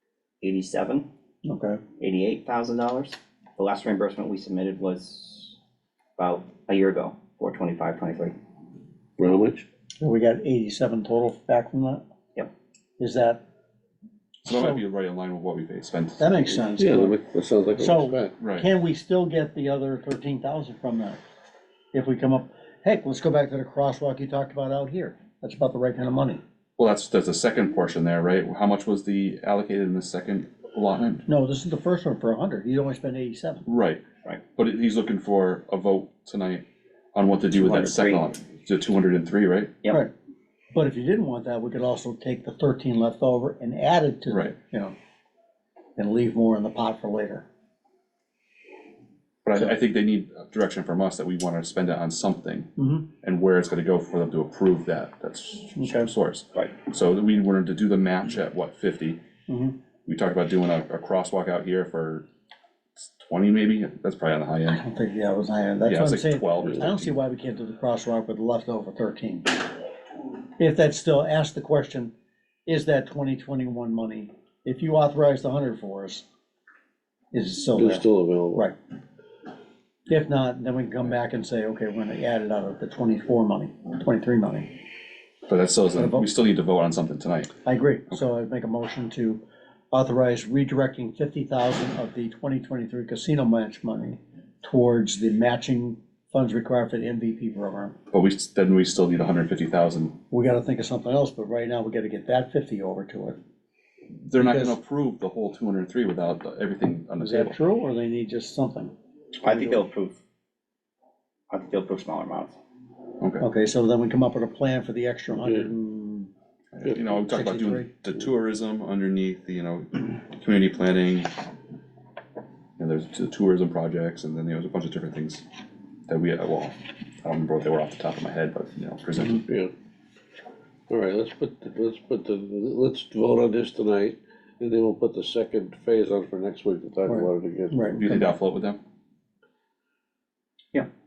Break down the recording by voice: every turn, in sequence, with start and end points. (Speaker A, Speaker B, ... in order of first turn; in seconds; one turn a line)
Speaker A: 0.4-1.1
Speaker B: 1.4-1.8
Speaker A: 2.0-5.6
Speaker A: 6.2-8.4
Speaker C: 9.2-9.7
Speaker B: 10.0-12.0
Speaker B: 13.0-13.4
Speaker D: 14.4-16.5
Speaker B: 14.5-14.8
Speaker B: 16.2-17.2
Speaker C: 16.8-18.3
Speaker B: 17.8-21.2
Speaker D: 18.4-18.7
Speaker B: 21.9-26.4
Speaker D: 26.8-31.2
Speaker B: 31.3-33.6
Speaker D: 33.7-34.0
Speaker D: 34.5-39.8
Speaker A: 37.5-38.3
Speaker B: 40.7-44.9
Speaker D: 44.3-44.5
Speaker B: 46.0-47.5
Speaker D: 49.4-52.7
Speaker B: 52.8-53.1
Speaker D: 53.2-59.2
Speaker B: 55.8-56.1
Speaker B: 59.5-59.8
Speaker D: 60.1-62.3
Speaker D: 63.0-64.8
Speaker B: 64.7-69.6
Speaker D: 65.8-67.2
Speaker B: 70.6-72.1
Speaker B: 72.7-76.2
Speaker B: 77.3-78.8
Speaker C: 77.7-78.7
Speaker B: 80.1-84.7
Speaker D: 85.5-87.5
Speaker B: 86.0-86.3
Speaker B: 87.7-98.0
Speaker D: 98.1-100.2
Speaker B: 100.3-103.4
Speaker D: 104.3-107.6
Speaker B: 104.4-104.8
Speaker B: 107.2-108.9
Speaker A: 109.4-110.2
Speaker B: 109.5-109.8
Speaker A: 111.5-112.6
Speaker D: 113.2-113.5
Speaker B: 113.4-116.3
Speaker C: 115.4-115.7
Speaker D: 116.7-121.4
Speaker B: 117.3-117.9
Speaker D: 122.8-125.5
Speaker D: 126.1-129.5
Speaker C: 130.9-138.0
Speaker B: 137.1-138.2
Speaker D: 138.0-138.8